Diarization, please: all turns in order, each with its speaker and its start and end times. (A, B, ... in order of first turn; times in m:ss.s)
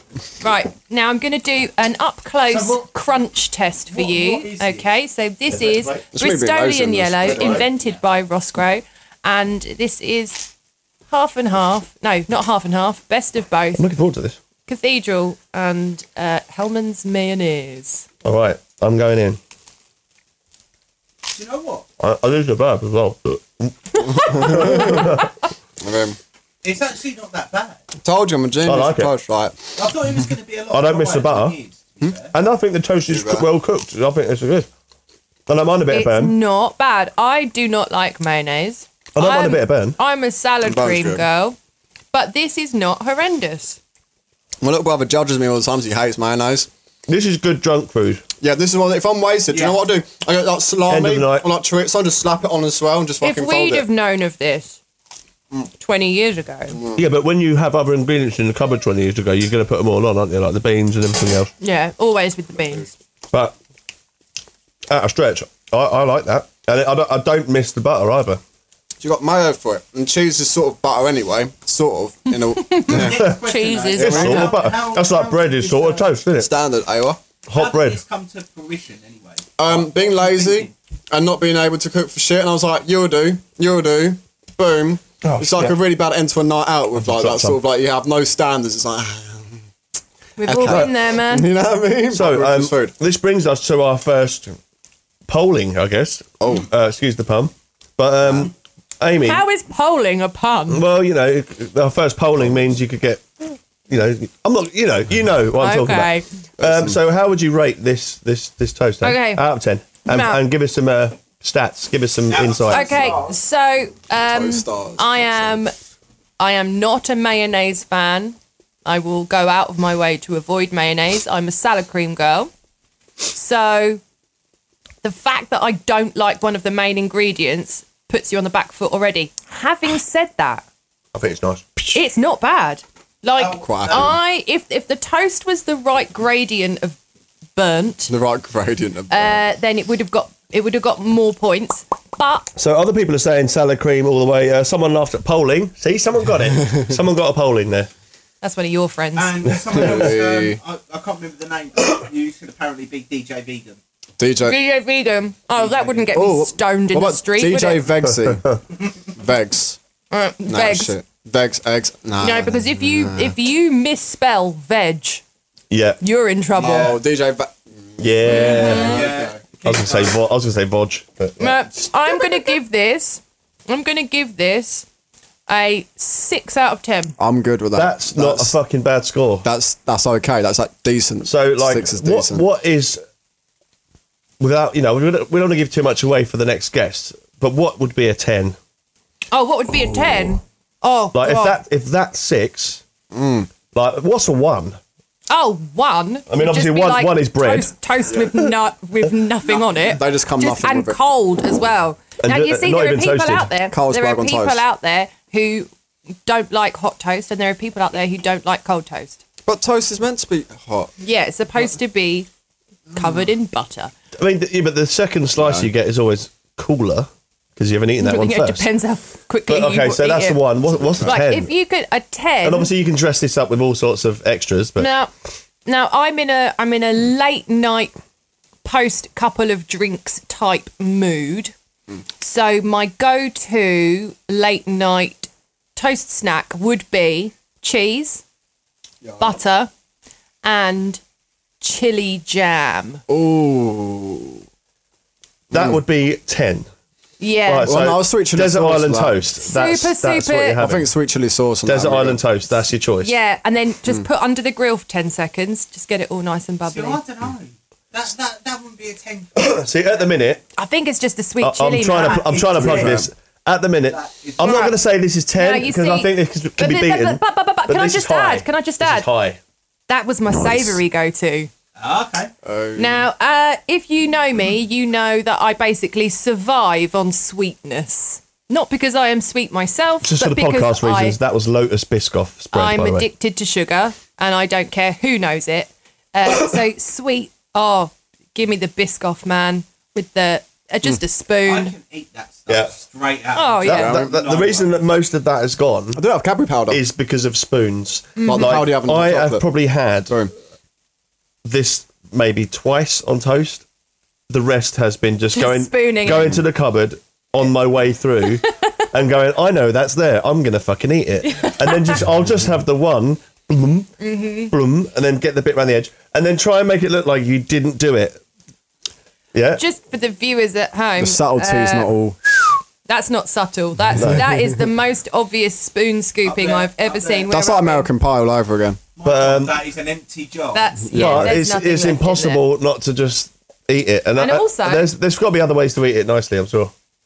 0:00.4-0:10.5 A
0:02.5-0:02.9 B
0:03.9-0:04.9 B
0:05.5-0:06.0 C
0:06.1-0:07.6 D
0:07.4-0:08.0 B
0:11.1-0:13.8 A
0:13.7-0:14.4 C
0:14.7-0:18.0 A
0:18.2-0:19.4 C
0:21.3-0:21.8 B
0:22.0-0:25.3 C
0:23.9-0:25.3 A
0:24.1-0:25.1 D
0:25.8-0:26.2 D
0:26.6-0:27.8 B
0:28.0-0:29.7 D
0:28.6-0:29.1 C
0:29.8-0:32.3 B
0:30.7-0:31.6 C
0:32.3-0:34.7 C
0:33.1-0:33.5 D
0:35.5-0:36.4 C
0:35.9-0:41.6 A
0:39.1-0:40.0 C
0:40.6-0:41.2 D
0:42.1-0:43.8 A
0:44.6-0:46.7 D
0:47.1-0:48.2 C
0:48.4-0:53.9 D
0:49.5-0:49.8 B
0:50.9-0:51.5 C
0:53.2-0:54.8 A
0:55.8-0:56.8 A
0:56.7-0:57.0 D
0:57.0-1:01.5 C
1:01.6-1:02.9 A
1:04.9-1:08.4 C
1:09.0-1:13.2 D
1:12.3-1:14.5 A
1:12.9-1:16.1 B
1:14.0-1:16.5 C
1:14.0-1:14.4 D
1:16.4-1:17.2 D
1:17.5-1:18.0 C
1:17.5-1:20.7 B
1:19.6-1:29.6 D
1:25.2-1:25.8 C
1:27.0-1:27.6 C
1:30.4-1:31.5 A
1:30.4-1:32.9 D
1:30.6-1:30.9 C
1:32.1-1:34.6 C
1:35.3-1:39.4 C
1:36.4-1:36.7 D
1:39.2-1:40.8 A
1:40.7-1:53.1 C
1:45.6-1:46.3 A
1:46.6-1:47.0 D
1:49.0-1:49.4 A
1:50.0-1:50.4 A
1:52.3-1:53.4 B
1:52.7-1:55.7 A
1:54.2-1:55.6 D
1:56.4-2:02.5 A
2:03.3-2:04.0 A
2:05.0-2:10.6 A
2:11.1-2:12.0 C
2:11.9-2:17.0 A
2:13.4-2:14.1 B
2:13.6-2:14.2 D
2:17.6-2:18.1 A
2:18.1-2:19.4 D
2:19.1-2:22.5 A
2:22.6-2:27.9 C
2:28.4-2:29.4 A
2:29.2-2:33.8 B
2:29.7-2:30.6 D
2:34.2-2:34.6 D
2:34.4-2:37.8 A
2:35.5-2:36.2 B
2:36.1-2:38.5 D
2:39.1-2:39.8 D
2:40.1-2:40.9 A
2:40.5-2:43.3 D
2:42.2-2:45.2 A
2:45.7-2:46.0 C
2:46.0-2:47.0 A
2:46.6-2:49.4 D
2:48.0-2:49.0 C
2:48.3-2:50.2 B
2:48.3-2:48.9 A
2:49.6-2:51.6 C
2:51.4-2:54.8 A
2:55.5-2:57.1 A
2:57.2-2:58.5 D
2:57.7-2:59.5 C
2:59.4-3:02.4 D
3:01.2-3:03.0 C
3:04.4-3:08.6 C
3:09.3-3:11.6 A
3:11.1-3:12.8 C
3:13.1-3:13.5 D
3:13.7-3:14.8 C
3:15.3-3:25.7 A
3:16.3-3:17.7 C
3:19.4-3:19.9 B
3:19.8-3:21.0 D
3:22.2-3:23.5 C
3:23.7-3:24.6 D
3:26.2-3:29.2 A
3:29.4-3:30.9 D
3:31.0-3:32.3 A
3:32.9-3:33.9 A
3:34.2-3:38.7 C
3:35.4-3:35.7 D
3:38.0-3:40.4 A
3:39.5-3:41.5 C
3:40.8-3:41.1 D
3:41.0-3:42.7 A
3:42.4-3:44.9 C
3:44.8-3:45.1 A
3:45.6-3:47.9 A
3:48.6-3:51.5 A
3:52.2-3:58.2 A
3:59.0-3:59.4 D
3:59.2-3:59.7 A
4:00.4-4:01.0 A
4:01.6-4:03.0 A
4:03.1-4:04.4 D
4:05.5-4:06.7 C
4:05.5-4:05.8 D
4:07.2-4:07.7 A
4:07.4-4:10.9 C
4:07.6-4:09.2 D
4:09.4-4:10.6 A
4:10.6-4:12.2 D
4:11.6-4:13.1 C
4:13.0-4:17.0 A
4:16.6-4:19.7 B
4:19.4-4:20.4 C
4:20.6-4:22.6 A
4:21.4-4:29.4 C
4:22.0-4:22.9 B
4:22.5-4:23.1 D
4:23.9-4:24.7 B
4:24.4-4:24.7 A
4:25.4-4:29.1 A
4:29.9-4:31.5 A
4:31.8-4:32.3 B
4:32.4-4:33.1 D
4:32.8-4:41.2 A
4:40.0-4:43.1 C
4:42.5-4:51.7 A
4:51.4-4:54.8 B
4:53.3-4:53.9 A
4:53.6-4:56.0 C
4:53.7-4:54.2 D
4:55.9-4:56.8 D
4:56.7-5:00.2 C
4:58.2-4:58.6 A
4:58.3-4:59.4 D
5:00.1-5:00.3 D
5:01.4-5:03.6 C
5:04.3-5:13.9 C
5:05.3-5:06.4 A
5:11.2-5:12.0 A
5:14.0-5:14.5 A
5:14.5-5:18.2 C
5:19.3-5:19.6 C
5:19.5-5:21.9 A
5:21.0-5:22.5 D
5:22.8-5:27.9 A
5:24.0-5:24.3 C
5:26.2-5:27.3 B
5:27.3-5:28.8 D
5:29.0-5:30.8 B
5:29.0-5:29.6 C
5:30.5-5:32.4 A
5:30.9-5:31.3 D
5:30.9-5:36.7 C
5:34.2-5:34.9 A